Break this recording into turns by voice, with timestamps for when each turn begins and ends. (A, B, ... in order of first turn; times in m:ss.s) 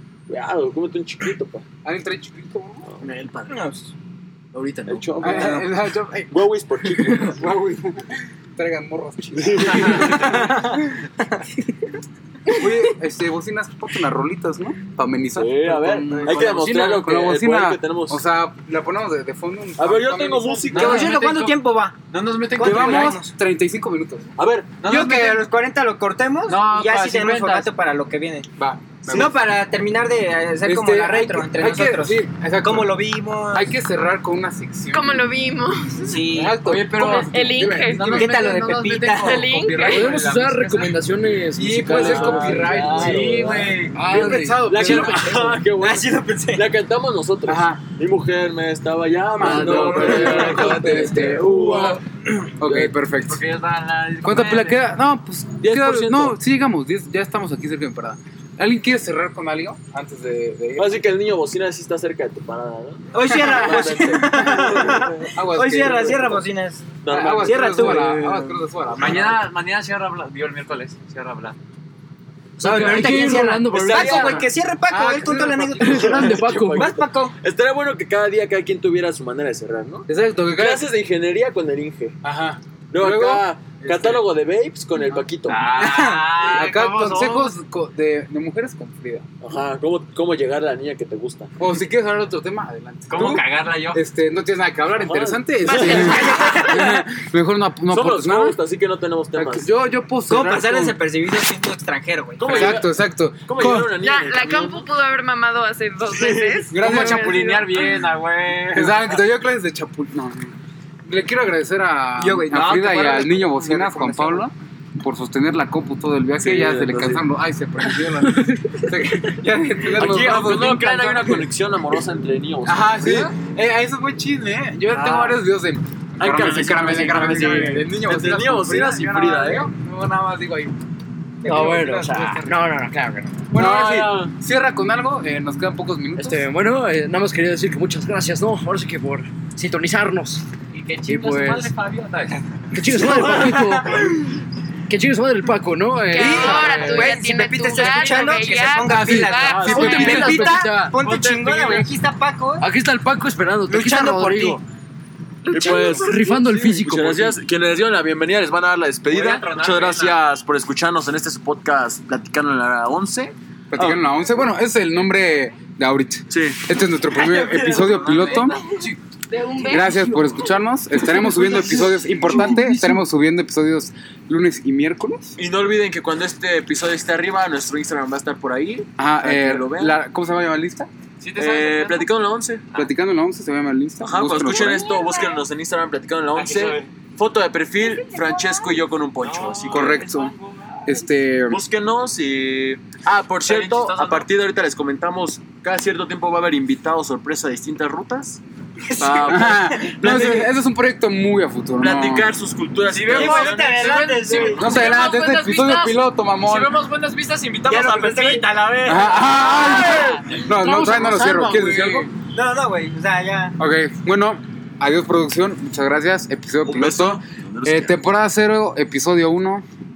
0:00.3-0:01.6 A
0:01.8-0:02.9 B
0:03.0-0:03.7 C
0:03.5-0:03.9 D
0:04.5-0:05.6 C
0:04.9-0:05.7 A
0:05.2-0:06.3 B
0:06.3-0:07.4 A
0:07.0-0:07.4 C
0:07.4-0:11.0 B
0:09.4-0:10.6 A
0:10.6-0:11.4 D
0:12.5-0:21.1 B
0:15.4-0:18.2 A
0:16.4-0:17.0 C
0:19.8-0:21.2 A
0:20.7-0:21.6 E
0:20.7-0:22.0 D
0:22.1-0:23.2 E
0:22.6-0:23.3 D
0:22.6-0:24.3 B
0:24.4-0:24.7 A
0:24.8-0:25.4 E
0:24.8-0:28.5 D
0:26.5-0:27.7 E
0:28.6-0:29.4 B
0:29.0-0:33.7 D
0:30.6-0:33.0 B
0:33.5-0:35.3 B
0:34.9-0:36.3 F
0:36.0-0:36.6 D
0:36.2-0:40.8 B
0:36.6-0:37.3 E
0:36.9-0:40.1 F
0:37.9-0:38.3 E
0:38.1-0:39.5 D
0:39.8-0:43.0 C
0:39.8-0:40.9 E
0:41.6-0:45.6 B
0:41.8-0:43.8 A
0:42.9-0:44.0 E
0:43.9-0:45.2 C
0:44.6-0:52.0 A
0:45.7-0:46.7 D
0:47.5-0:47.8 B
0:49.4-0:53.4 B
0:49.4-0:52.0 C
0:52.6-0:52.9 A
0:53.2-0:54.9 E
0:54.2-1:00.9 B
0:55.6-0:56.4 A
1:00.8-1:06.4 A
1:03.1-1:08.2 D
1:03.4-1:06.4 B
1:07.0-1:08.2 A
1:07.1-1:09.4 B
1:07.8-1:08.6 C
1:08.9-1:11.6 E
1:12.6-1:14.5 C
1:12.6-1:17.4 D
1:13.7-1:14.5 A
1:14.9-1:16.4 B
1:15.8-1:16.9 C
1:15.8-1:22.2 A
1:20.1-1:20.8 B
1:22.2-1:24.2 B
1:22.9-1:25.6 A
1:25.1-1:29.3 B
1:25.5-1:27.5 E
1:29.4-1:31.5 A
1:31.6-1:38.6 B
1:33.1-1:34.0 E
1:35.0-1:36.2 A
1:35.6-1:37.0 D
1:37.9-1:39.7 A
1:39.4-1:41.0 B
1:40.3-1:42.8 D
1:42.4-1:44.9 A
1:42.4-1:44.0 B
1:43.9-1:48.0 F
1:46.1-1:46.6 A
1:46.7-1:47.4 B
1:46.7-1:49.1 E
1:48.7-1:50.5 B
1:51.1-2:01.4 B
1:52.2-1:54.4 D
1:56.4-1:57.3 A
1:59.9-2:03.3 A
2:02.6-2:10.7 B
2:04.9-2:05.4 A
2:06.2-2:09.7 A
2:07.1-2:07.9 C
2:11.4-2:12.8 B
2:11.4-2:13.4 C
2:11.5-2:11.8 D
2:13.5-2:16.4 B
2:13.5-2:14.3 A
2:16.2-2:20.4 C
2:20.7-2:22.4 E
2:21.1-2:21.7 C
2:22.7-2:24.1 C
2:23.0-2:24.2 A
2:24.9-2:26.7 C
2:26.1-2:30.3 F
2:26.2-2:32.7 D
2:26.4-2:27.2 B
2:28.8-2:30.7 B
2:29.4-2:30.2 A
2:29.6-2:31.0 C
2:30.9-2:31.9 E
2:32.6-2:34.6 C
2:33.7-2:34.6 D
2:35.5-2:36.1 F
2:35.5-2:44.1 A
2:35.6-2:37.4 C
2:35.7-2:36.0 B
2:39.1-2:40.2 E
2:43.7-2:48.6 B
2:46.3-2:46.6 A
2:47.3-2:48.6 E
2:47.4-2:47.8 D
2:48.6-2:48.8 F
2:48.8-2:53.0 C
2:49.3-2:50.0 F
2:49.6-2:55.4 B
2:55.4-3:00.0 A
2:59.0-3:00.9 B
3:01.2-3:02.1 E
3:01.4-3:02.7 A
3:02.7-3:04.9 B
3:04.0-3:10.1 A
3:04.4-3:05.4 F
3:06.3-3:06.9 E
3:07.8-3:08.8 F
3:09.2-3:10.8 E
3:09.7-3:10.3 B
3:10.8-3:11.6 B
3:11.5-3:18.4 A
3:13.4-3:14.3 E
3:18.9-3:20.0 D
3:19.0-3:20.5 A
3:19.3-3:22.3 B
3:21.8-3:23.8 A
3:22.8-3:30.4 E
3:23.1-3:25.0 D
3:24.4-3:26.8 B
3:27.7-3:28.9 D
3:28.9-3:32.1 B
3:29.5-3:32.1 C
3:32.3-3:33.6 D
3:33.6-3:39.6 B
3:36.6-3:38.0 A